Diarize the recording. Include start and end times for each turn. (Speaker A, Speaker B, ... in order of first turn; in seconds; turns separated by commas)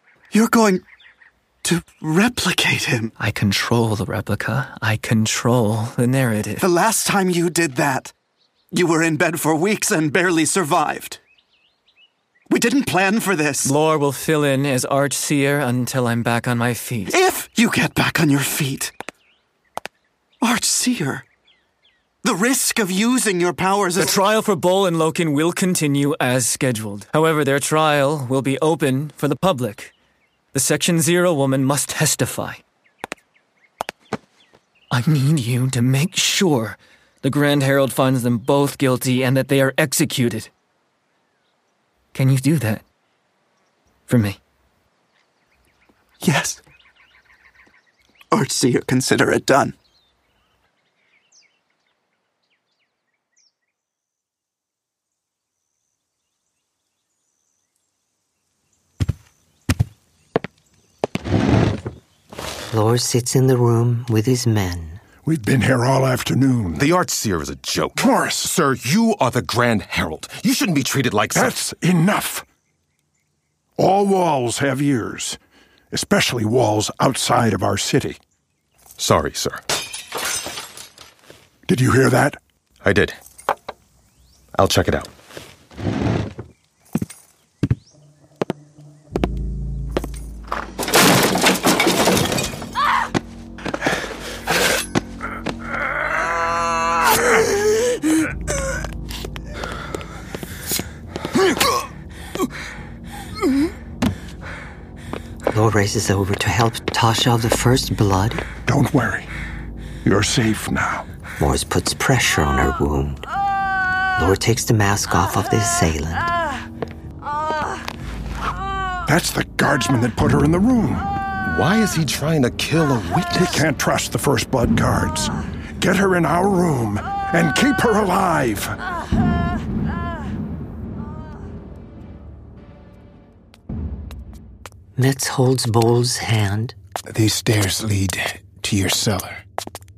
Speaker A: 0.3-0.8, Speaker A: 1.6-3.1, Speaker B: 3.2-6.7, Speaker A: 6.6-8.1, Speaker A: 8.7-11.2, Speaker A: 12.5-13.7, Speaker B: 13.7-17.1, Speaker A: 17.1-18.9, Speaker A: 20.4-21.2, Speaker A: 22.2-24.2, Speaker B: 24.0-29.9, Speaker B: 30.5-32.6, Speaker B: 34.9-40.5, Speaker B: 42.1-42.8, Speaker B: 44.1-44.4, Speaker A: 46.2-46.6, Speaker A: 48.3-49.8, Speaker C: 62.7-65.0, Speaker D: 65.2-66.8, Speaker E: 66.8-71.5, Speaker D: 68.0-68.5, Speaker D: 71.3-72.5, Speaker D: 73.8-75.4, Speaker D: 75.9-78.2, Speaker E: 79.0-79.6, Speaker D: 81.7-82.4, Speaker E: 82.8-83.2, Speaker E: 84.5-85.1, Speaker C: 105.5-108.4, Speaker D: 108.7-109.3, Speaker D: 110.0-111.1, Speaker C: 111.4-113.3, Speaker C: 114.2-116.3, Speaker D: 119.1-121.1, Speaker E: 121.4-123.6, Speaker D: 123.4-128.8, Speaker C: 135.0-136.8, Speaker F: 137.1-139.4